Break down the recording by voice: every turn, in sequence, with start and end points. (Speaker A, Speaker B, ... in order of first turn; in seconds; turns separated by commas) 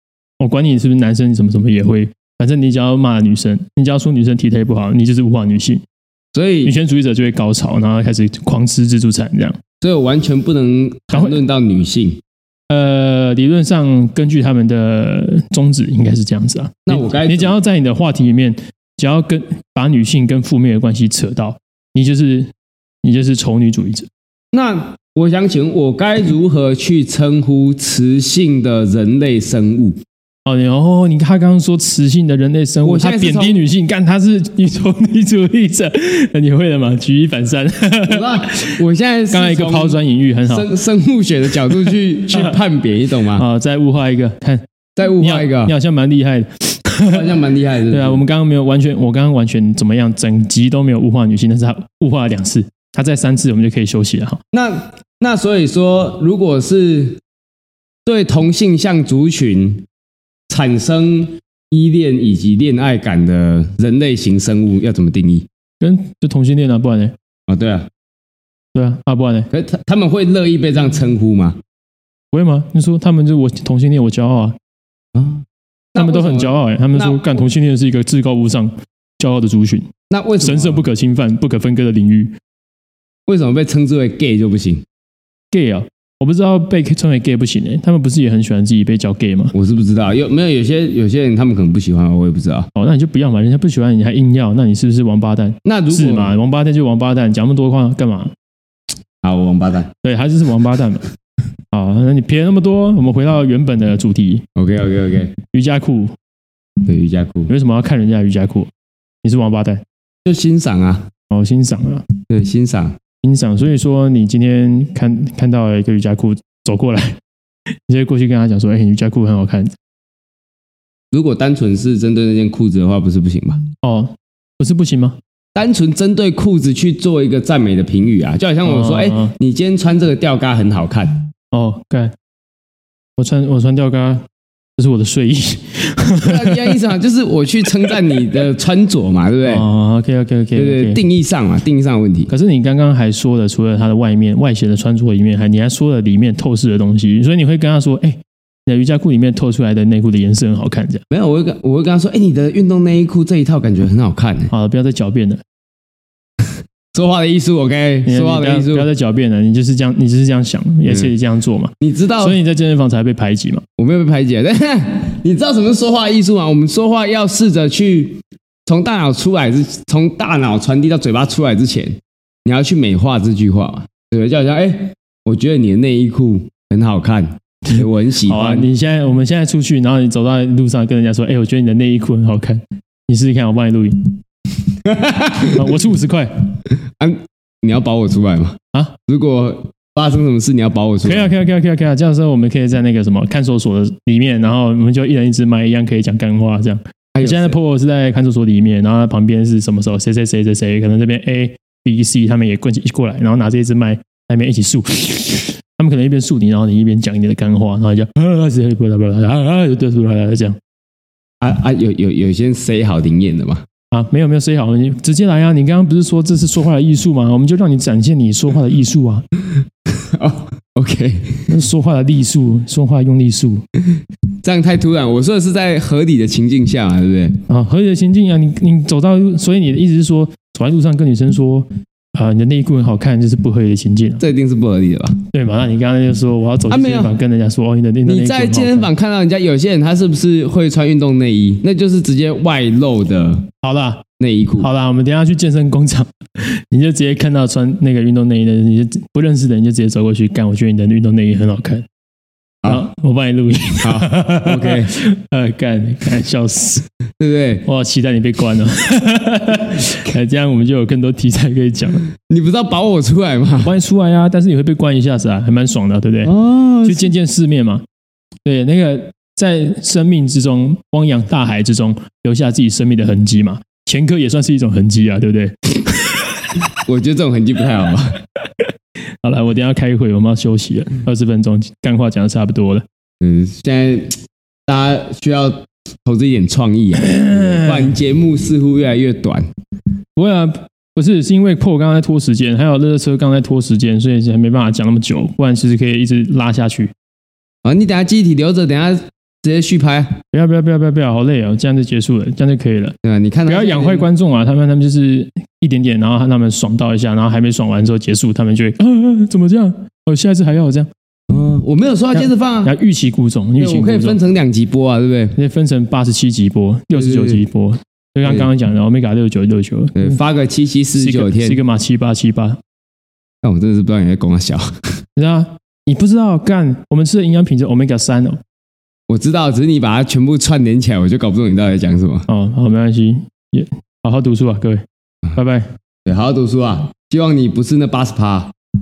Speaker A: 0.4-5.8, Speaker B: 6.3-6.7, Speaker A: 6.6-9.6, Speaker B: 9.8-12.2, Speaker A: 12.7-22.5, Speaker B: 16.9-17.5, Speaker A: 23.0-24.1, Speaker B: 24.5-30.0, Speaker A: 30.4-38.8, Speaker B: 32.8-33.6, Speaker B: 38.0-43.4, Speaker A: 39.3-40.7, Speaker A: 43.3-44.6, Speaker B: 45.0-45.7, Speaker A: 45.1-47.3, Speaker B: 47.1-48.2, Speaker A: 47.9-54.4, Speaker B: 54.5-57.2, Speaker B: 58.0-59.8, Speaker B: 60.5-65.5, Speaker A: 65.8-67.1, Speaker B: 67.5-67.9, Speaker A: 68.7-69.5, Speaker B: 69.5-71.6, Speaker A: 72.3-74.5, Speaker B: 75.1-77.3, Speaker A: 76.0-82.3, Speaker B: 80.1-80.8, Speaker B: 83.3-84.8, Speaker A: 85.5-89.5, Speaker B: 89.5-92.7, Speaker A: 92.7-98.3, Speaker B: 95.6-96.3, Speaker B: 99.2-99.9, Speaker A: 100.0-101.0, Speaker A: 101.7-104.4, Speaker B: 104.5-105.3, Speaker A: 105.5-106.1, Speaker B: 106.8-107.5, Speaker A: 107.5-108.7, Speaker A: 109.2-109.8, Speaker B: 110.2-111.1, Speaker A: 111.3-112.0, Speaker B: 112.3-113.0, Speaker A: 113.2-117.2, Speaker A: 117.9-119.7, Speaker B: 121.1-123.6, Speaker A: 123.8-125.2, Speaker B: 125.5-131.2, Speaker A: 128.7-129.3, Speaker A: 131.5-132.1, Speaker A: 133.2-134.2, Speaker A: 134.8-136.8, Speaker B: 136.2-139.7, Speaker A: 139.4-141.0, Speaker B: 140.5-142.3, Speaker A: 142.3-151.0, Speaker B: 151.1-154.5, Speaker A: 154.5-155.4, Speaker B: 156.9-158.9, Speaker A: 158.1-163.6, Speaker B: 161.8-162.4, Speaker B: 163.8-178.7, Speaker A: 177.7-184.2, Speaker B: 184.8-185.6, Speaker A: 185.5-186.5, Speaker B: 186.9-191.3, Speaker A: 191.0-210.6, Speaker B: 197.1-197.6, Speaker B: 211.4-213.6, Speaker A: 213.9-219.2, Speaker B: 219.9-221.5, Speaker A: 221.5-223.6, Speaker B: 224.4-227.4, Speaker A: 227.5-234.2, Speaker B: 234.2-235.2, Speaker A: 235.3-238.9, Speaker B: 236.7-237.1, Speaker B: 238.0-243.5, Speaker A: 243.6-244.0, Speaker B: 244.2-244.7, Speaker A: 244.6-251.8, Speaker A: 252.7-256.9, Speaker B: 253.8-254.9, Speaker B: 257.2-257.6, Speaker A: 257.6-262.0, Speaker B: 262.1-263.7, Speaker A: 263.6-267.8, Speaker B: 266.2-267.1, Speaker A: 268.4-276.5, Speaker B: 276.8-278.2, Speaker A: 279.2-282.8, Speaker B: 283.2-289.5, Speaker A: 287.0-287.9, Speaker A: 290.1-296.9, Speaker B: 297.6-300.2, Speaker A: 300.3-302.9, Speaker B: 303.0-304.1, Speaker A: 303.4-310.9, Speaker B: 311.3-312.7, Speaker A: 312.1-314.2, Speaker B: 313.6-315.4, Speaker A: 315.4-320.2, Speaker B: 316.9-317.4, Speaker B: 319.9-321.6, Speaker A: 320.9-322.6, Speaker B: 323.4-325.0, Speaker A: 325.1-328.4, Speaker B: 329.1-332.3, Speaker A: 332.3-335.7, Speaker B: 336.0-338.5